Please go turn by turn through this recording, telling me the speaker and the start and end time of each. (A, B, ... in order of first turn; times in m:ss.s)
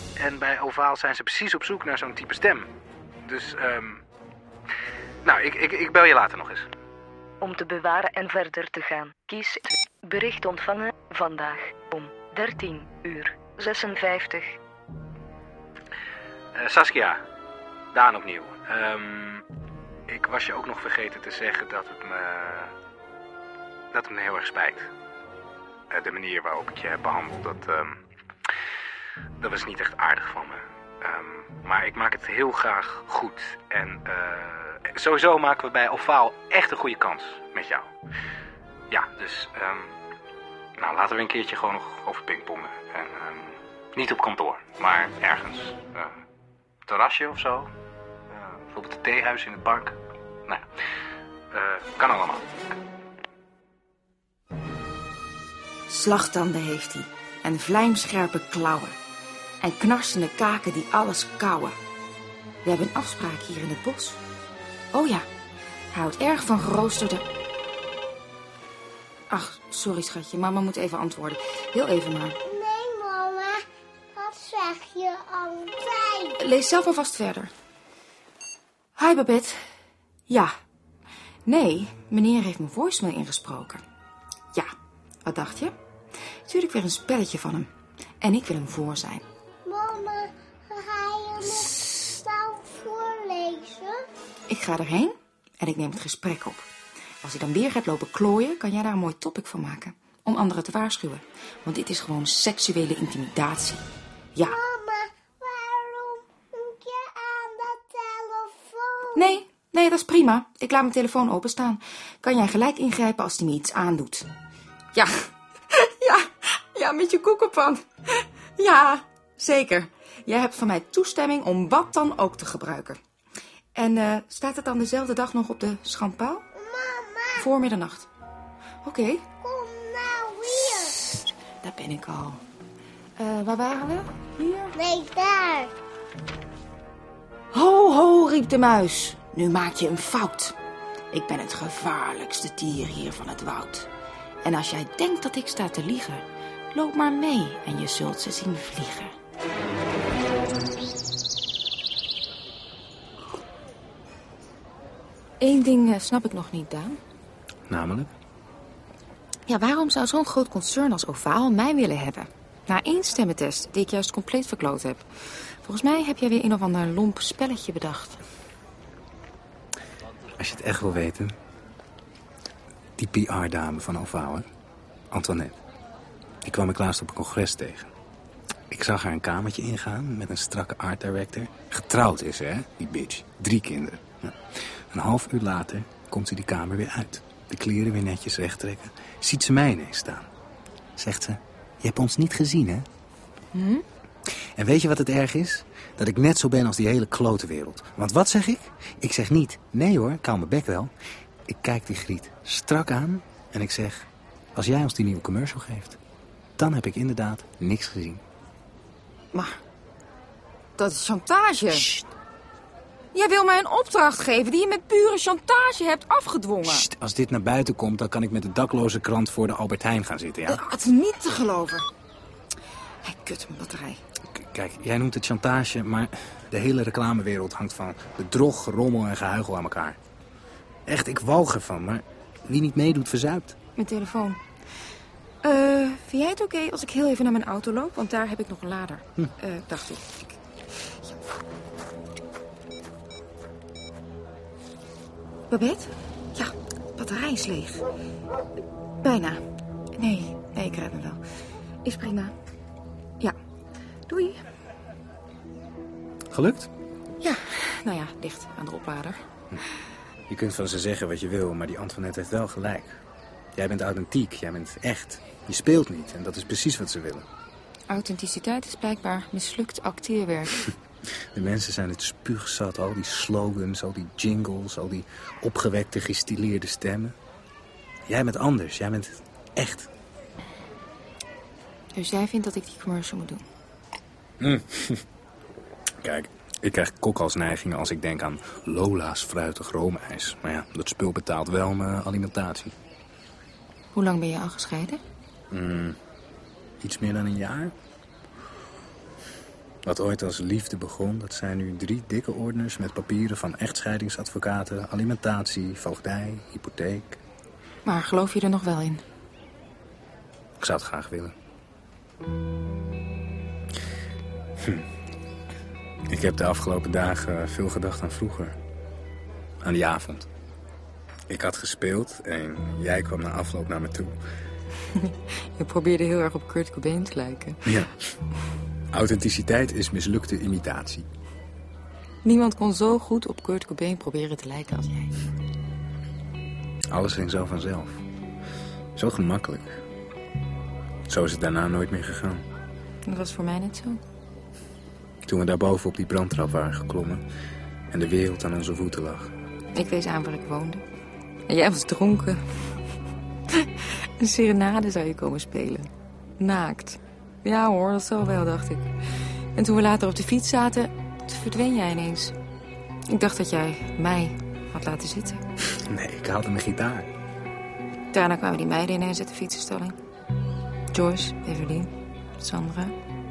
0:00.2-0:02.7 A
0:03.2-0:04.0 A
0:05.2-0:06.7 A
0:07.4-0:14.6 B
0:16.6-0:17.2 A
0:17.9-0:19.4 A
0:20.1-0:22.8 A
0:23.9-0:24.9 A
0:25.9-0:28.0 A
0:29.4-0:37.9 A
0:38.9-0:40.0 A
0:40.8-0:46.2 A
0:46.9-0:47.7 A
0:48.3-0:50.7 A
0:51.5-0:52.5 A
0:55.9-0:59.0 C
0:59.6-1:01.8 C
1:02.6-1:04.2 C
1:04.9-1:05.3 C
1:05.9-1:07.2 C
1:09.3-1:12.4 C
1:12.5-1:16.4 D
1:16.4-1:17.5 C
1:19.0-1:19.7 C
1:20.3-1:20.5 C
1:21.5-1:23.8 C
1:25.2-1:25.8 C
1:26.5-1:29.2 C
1:29.6-1:34.0 D
1:34.5-1:36.7 C
1:37.2-1:43.8 C
1:44.4-1:49.4 D
1:49.2-1:54.3 C
1:54.9-2:03.0 C
2:03.8-2:06.4 C
2:06.6-2:07.5 D
2:07.4-2:08.1 C
2:08.8-2:09.2 C
2:09.4-2:11.0 D
2:10.7-2:12.4 C
2:13.2-2:14.7 C
2:14.8-2:15.7 D
2:17.5-2:20.6 C
2:21.1-2:23.9 C
2:24.4-2:29.2 C
2:35.4-2:37.0 C
2:37.7-2:38.1 A
2:39.5-2:48.2 C
2:50.4-2:51.4 A
2:53.0-2:54.5 A
2:55.1-2:55.6 A
2:56.4-2:57.9 A
2:58.7-3:10.3 A
3:11.0-3:12.9 A
3:13.5-3:13.8 C
3:14.3-3:20.9 A
3:21.5-3:26.0 A
3:26.6-3:28.2 A
3:29.3-3:29.6 C
3:30.8-3:31.9 C
3:31.7-3:32.1 A
3:33.1-3:36.9 C
3:36.6-3:40.6 A
3:40.5-3:41.9 C
3:43.0-3:44.0 C
3:44.3-3:50.0 A
3:50.9-3:53.6 A
3:53.8-3:54.4 C
3:55.4-4:01.2 C
4:05.5-4:07.8 C
4:09.0-4:09.4 C
4:10.0-4:11.2 C
4:11.8-4:12.3 C
4:14.1-4:14.4 C
4:16.3-4:16.7 A
4:17.2-4:19.3 C
4:20.3-4:23.0 A
4:23.5-4:27.3 A
4:27.9-4:30.6 C
4:31.3-4:37.2 A
4:38.1-4:39.9 A
4:42.0-4:43.4 C
4:44.4-4:45.0 A
4:46.0-4:52.8 A
4:53.9-4:55.0 C
4:55.5-4:56.0 A
4:56.8-4:57.7 A
4:59.8-5:07.2 A
5:07.8-5:09.0 C
5:10.6-5:11.4 A
5:14.6-5:14.9 A
5:16.1-5:18.6 A
5:19.6-5:20.3 A
5:21.3-5:24.2 A
5:24.9-5:27.8 C
5:27.6-5:27.9 A
5:28.9-5:31.1 A
5:32.2-5:35.2 C
5:36.9-5:38.0 A
5:39.0-5:39.8 A
5:41.1-5:42.4 A
5:43.0-5:44.0 C
5:45.2-5:47.2 A
5:47.9-5:49.3 A
5:49.8-5:50.8 C
5:51.5-5:52.4 C
5:53.5-5:58.9 C
5:59.6-6:02.4 C
6:03.1-6:05.4 C
6:05.7-6:07.1 A
6:08.1-6:10.0 C
6:10.9-6:13.0 C